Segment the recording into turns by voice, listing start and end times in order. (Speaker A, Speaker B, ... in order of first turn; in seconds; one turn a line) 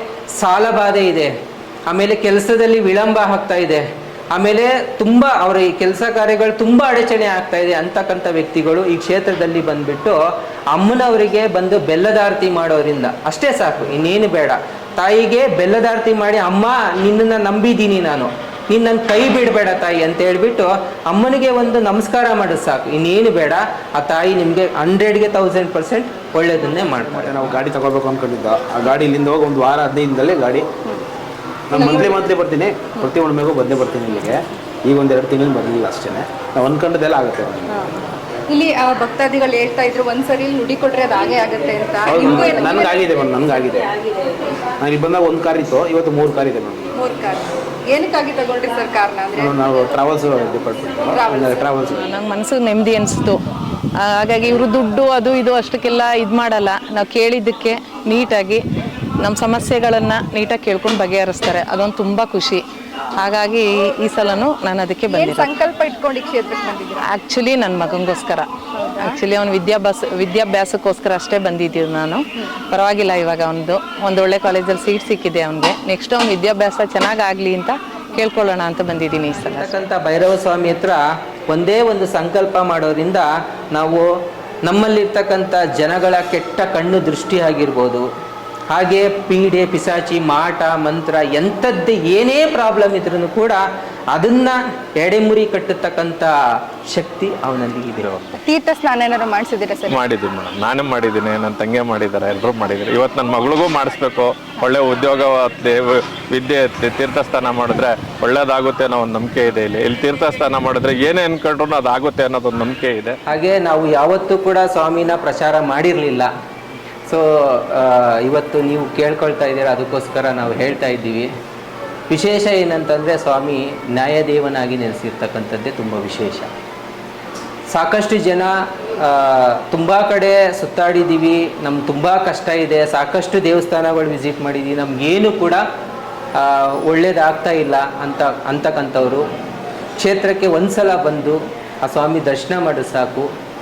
Speaker A: 0.4-1.3
Speaker A: 1.9-10.2
Speaker A: 10.7-27.5
Speaker B: 27.1-30.7
Speaker B: 31.7-37.8
Speaker C: 31.7-32.2
Speaker C: 37.7-43.0
Speaker B: 42.0-43.9
Speaker B: 44.8-46.9
Speaker C: 47.0-49.6
Speaker B: 49.4-52.0
Speaker C: 51.1-51.7
Speaker D: 51.9-53.4
Speaker D: 54.0-58.6
Speaker D: 59.2-62.6
Speaker D: 63.2-65.5
Speaker C: 65.1-67.0
Speaker D: 67.0-68.5
Speaker C: 68.7-69.2
Speaker D: 69.0-79.7
Speaker A: 79.4-84.1
Speaker A: 84.7-88.0
Speaker A: 88.7-93.6
Speaker A: 94.1-96.3
Speaker A: 96.9-98.1
Speaker C: 98.4-100.0
Speaker E: 99.9-113.2
Speaker A: 113.3-116.3
Speaker A: 117.1-121.3
Speaker A: 122.1-126.5
Speaker A: 127.7-135.6
Speaker A: 136.4-139.2
Speaker A: 140.0-143.3